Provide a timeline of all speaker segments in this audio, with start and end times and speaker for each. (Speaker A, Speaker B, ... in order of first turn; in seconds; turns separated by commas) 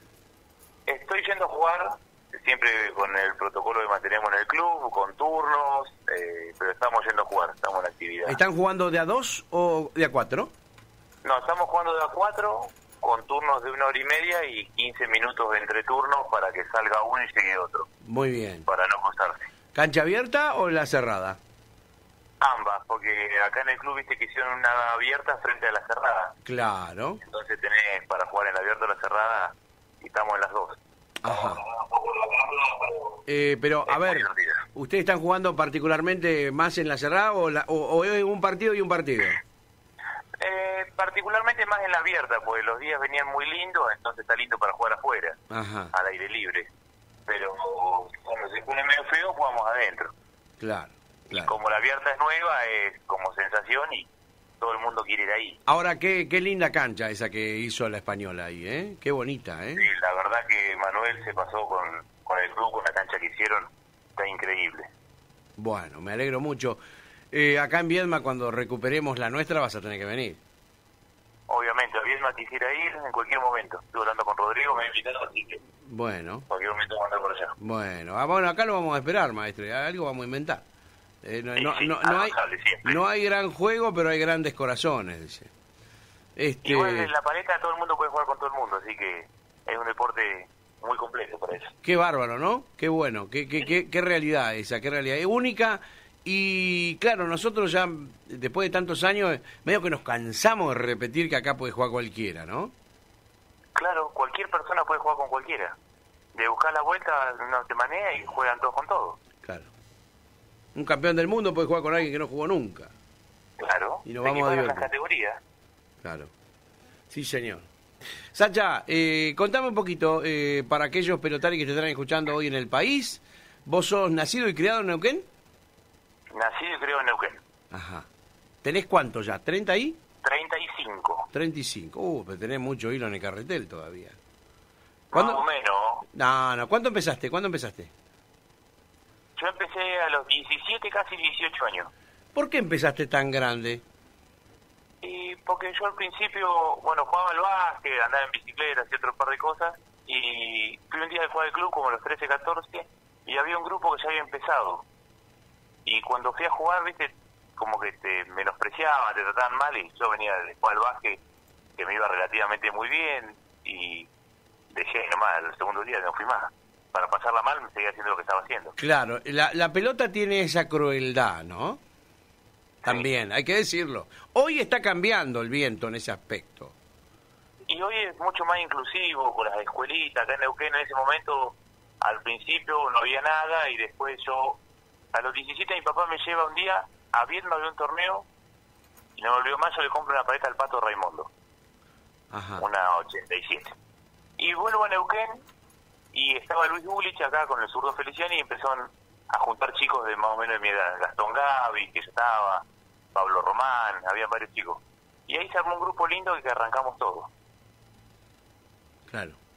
Speaker A: 0.9-8.4, Speaker B: 8.2-10.5, Speaker A: 11.2-17.9, Speaker B: 18.0-18.7, Speaker A: 18.6-19.5, Speaker B: 19.7-21.4, Speaker A: 22.4-26.4, Speaker B: 26.4-27.2, Speaker A: 27.2-33.2, Speaker B: 31.2-31.6, Speaker B: 33.3-39.4, Speaker A: 33.9-34.6, Speaker A: 40.4-45.4, Speaker B: 45.5-45.9, Speaker A: 45.9-46.7, Speaker A: 47.3-50.1, Speaker B: 50.6-51.5, Speaker A: 51.3-54.1, Speaker A: 54.6-55.6, Speaker B: 55.7-59.9, Speaker A: 59.8-64.9, Speaker B: 65.6-66.8, Speaker B: 67.3-70.4, Speaker A: 71.5-75.6, Speaker B: 75.9-76.5, Speaker A: 76.5-77.5, Speaker B: 77.6-80.6, Speaker B: 81.2-85.5, Speaker A: 81.5-83.0, Speaker B: 86.4-87.1, Speaker A: 86.6-91.7, Speaker B: 91.8-102.7, Speaker A: 103.8-105.7, Speaker A: 106.3-109.2, Speaker B: 109.4-109.7, Speaker B: 110.7-112.9, Speaker A: 113.6-115.4, Speaker B: 114.0-114.9, Speaker B: 116.0-116.3, Speaker B: 117.1-117.7, Speaker B: 118.3-125.3, Speaker A: 126.3-127.4, Speaker B: 127.7-128.1, Speaker B: 128.6-130.0, Speaker A: 130.2-131.3, Speaker B: 131.3-134.2, Speaker A: 135.1-136.1, Speaker B: 135.1-135.4, Speaker B: 136.1-137.9, Speaker A: 139.4-141.9, Speaker B: 142.3-143.8, Speaker A: 145.0-154.8, Speaker A: 155.9-161.2, Speaker A: 161.8-164.1, Speaker A: 164.7-168.8, Speaker B: 168.8-171.8, Speaker B: 172.8-176.7, Speaker A: 177.7-184.6, Speaker A: 185.1-188.2, Speaker A: 189.2-191.3, Speaker B: 192.3-192.7, Speaker A: 192.6-193.7, Speaker A: 194.4-195.4, Speaker A: 196.1-202.6, Speaker A: 203.2-207.3, Speaker B: 209.1-209.4